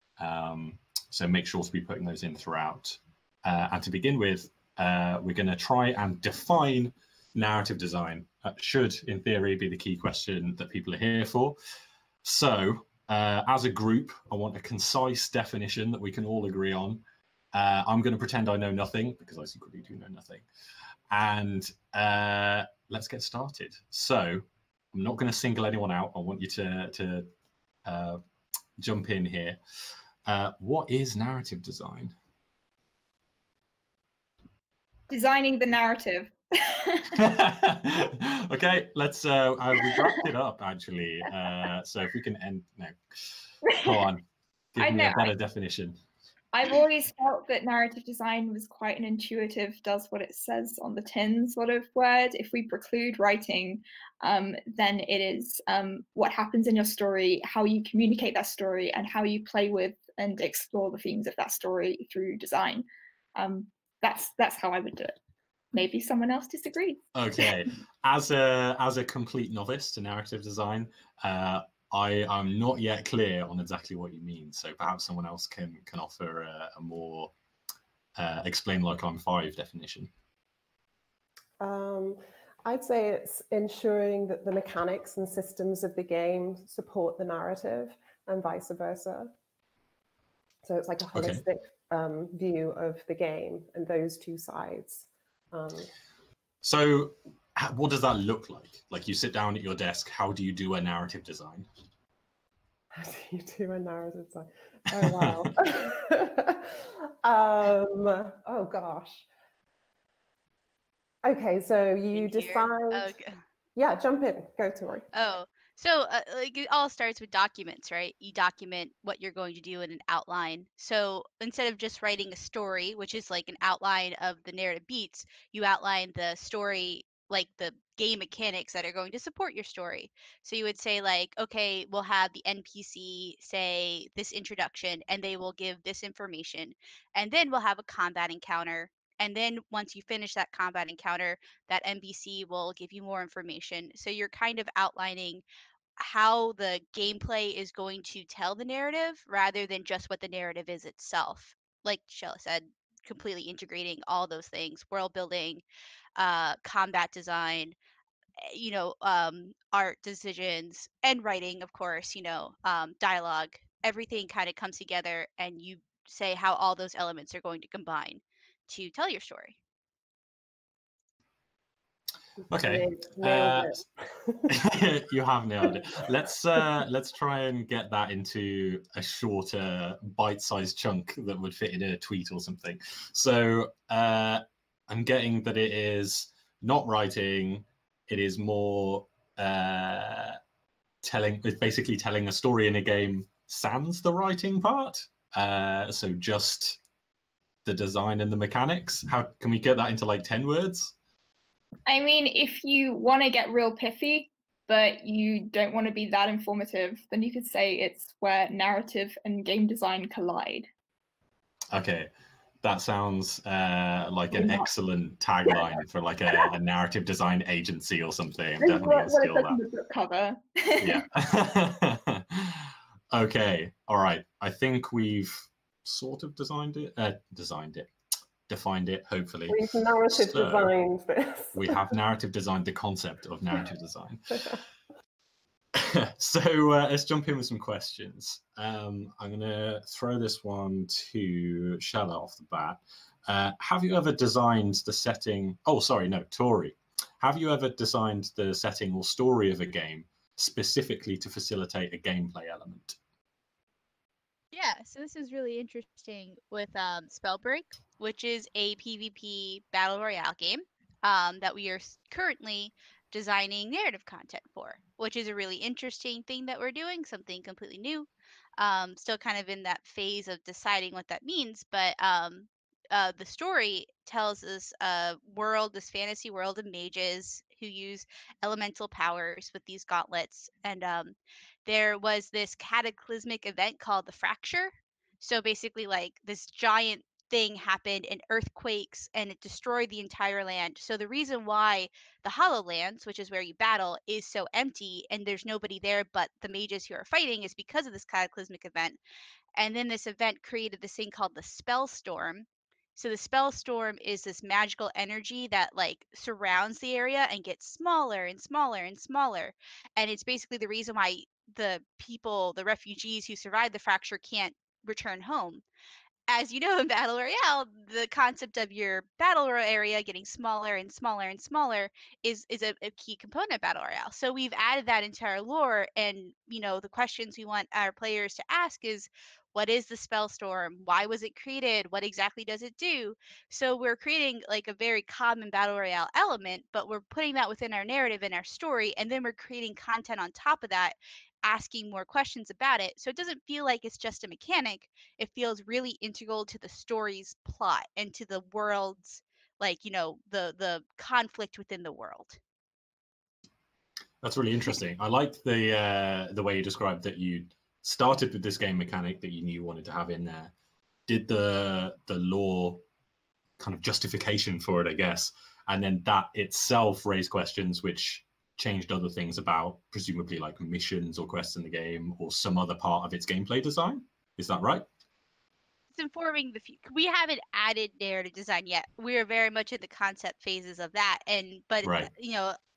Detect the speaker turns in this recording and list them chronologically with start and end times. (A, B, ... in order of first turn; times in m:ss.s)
0:00.2-0:11.6 A
0:12.2-0:17.0 A
0:17.5-0:20.4 A
0:21.1-0:27.3 A
0:27.8-0:28.2 A
0:28.8-0:29.6 A
0:30.2-0:32.1 A
0:35.1-0:37.2 B
0:37.1-0:44.2 A
0:39.9-0:40.2 B
0:43.7-0:43.9 B
0:44.7-0:46.0 A
0:44.8-0:45.3 B
0:46.5-1:02.8 B
1:03.4-1:05.2 B
1:05.7-1:07.4 B
1:07.1-1:17.3 A
1:18.2-1:20.1 A
1:21.6-1:29.3 C
1:30.6-1:35.9 C
1:31.1-1:31.4 A
1:36.6-1:41.6 A
1:42.9-1:49.2 C
1:45.0-1:45.5 A
1:51.2-1:53.1 C
1:52.1-1:53.4 D
1:53.8-1:55.0 C
1:55.1-2:25.4 D
2:26.0-2:35.6 D
2:36.2-2:37.7 D
2:38.4-2:49.6 D
2:52.5-2:53.8 A
2:52.5-2:54.5 C
2:54.5-3:10.4 A
3:11.0-3:16.8 A
3:17.6-3:20.9 A
3:21.8-3:30.7 B
3:31.7-3:32.1 A
3:32.6-3:39.6 A
3:34.3-3:34.7 B
3:38.6-3:41.0 B
3:40.8-3:47.9 A
3:48.5-3:50.7 A
3:49.5-3:51.8 C
3:51.5-3:54.6 A
3:55.7-4:13.0 A
4:14.5-4:59.0 D
4:59.6-5:15.6 D
5:16.3-5:52.4 D
5:54.2-6:00.5 A
6:01.1-6:02.8 A
6:03.6-6:14.8 A
6:16.0-6:22.6 D
6:21.8-6:22.1 A